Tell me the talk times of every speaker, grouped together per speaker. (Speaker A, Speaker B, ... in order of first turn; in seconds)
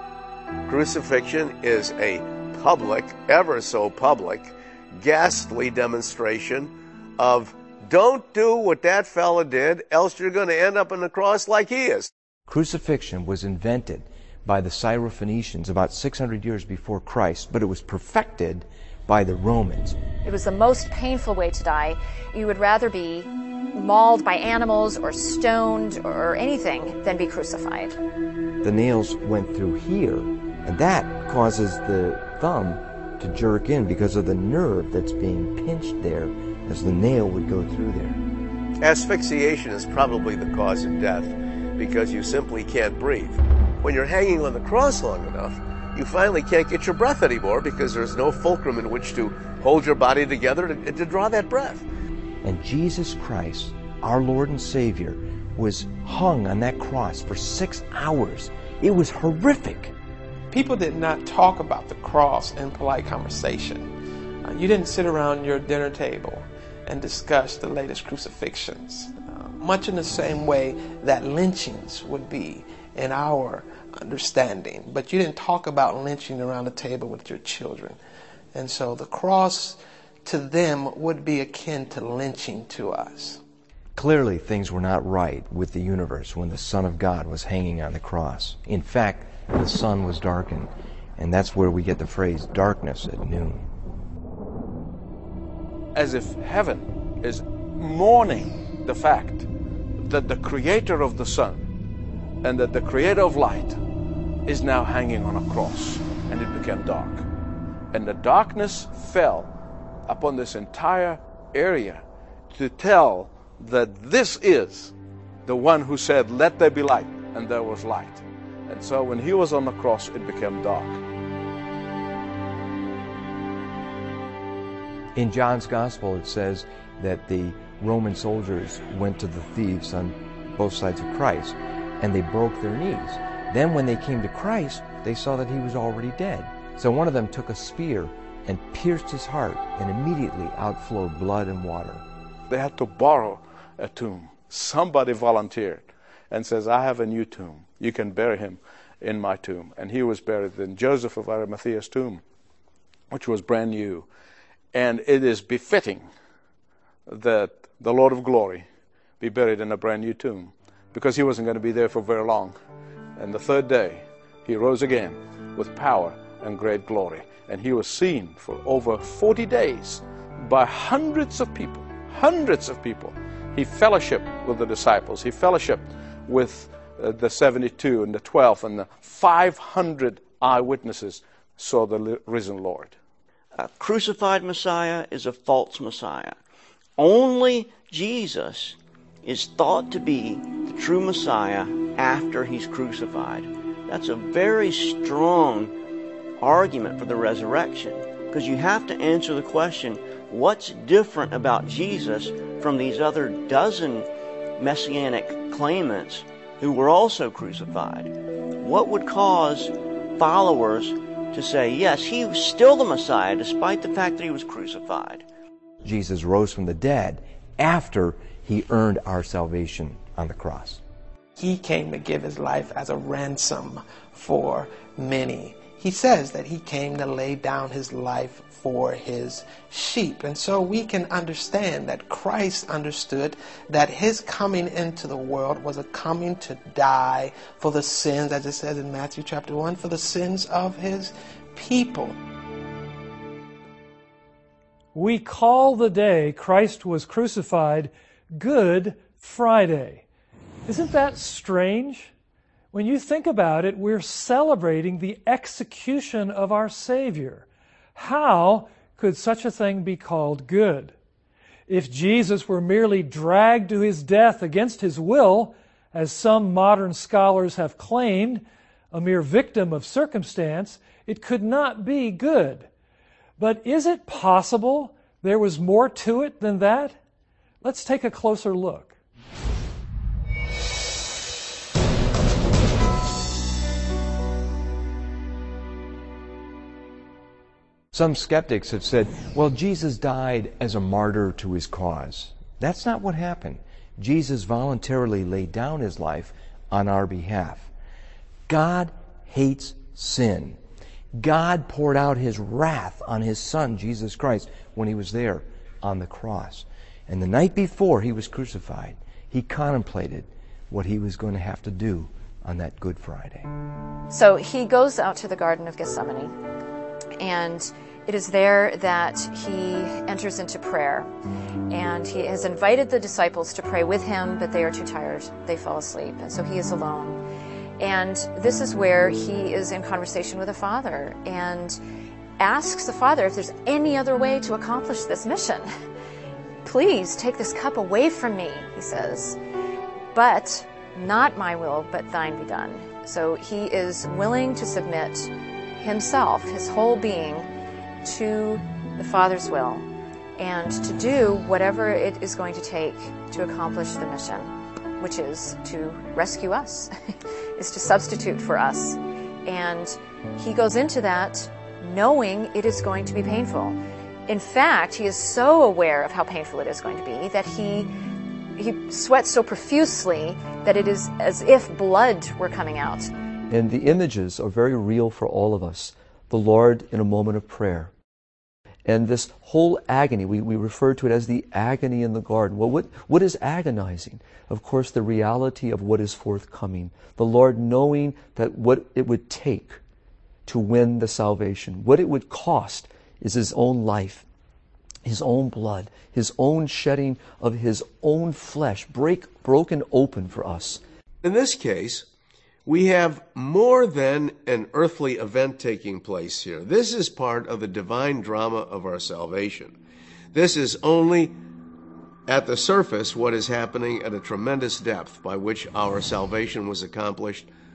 Speaker A: 0.7-12.1, 38.8-51.9, 401.2-402.1, 402.7-409.8, 410.3-411.4, 412.3-417.5
Speaker B: 12.5-20.0, 28.6-38.2, 52.4-59.9, 84.0-93.7, 125.2-142.0, 215.8-220.8, 287.9-297.7, 298.5-300.6, 301.2-313.5
Speaker C: 20.2-27.9, 314.1-316.3, 317.2-321.1, 321.7-327.2, 327.8-331.8, 332.4-335.7, 336.6-339.4, 340.1-347.5, 348.0-349.9, 350.4-356.9, 357.6-363.8, 364.3-367.9, 368.6-373.1
Speaker D: 60.5-63.9, 64.4-78.0, 78.5-83.4, 221.4-242.2
Speaker E: 96.0-101.6, 102.4-103.8, 104.5-107.3, 107.9-109.5, 110.1-114.9, 115.5-121.0, 142.5-152.2, 153.1-154.1, 154.7-156.1, 157.1-158.7, 159.2-162.6, 163.2-182.9
Speaker F: 183.6-186.3, 187.0-195.7, 196.4-204.1, 204.6-215.2
Speaker G: 244.9-250.0, 250.7-252.1, 252.7-257.4, 258.0-260.9, 261.7-272.7, 273.4-277.0, 277.6-278.9
Speaker H: 373.5-377.9, 378.9-389.8, 390.5-394.2, 395.1-400.8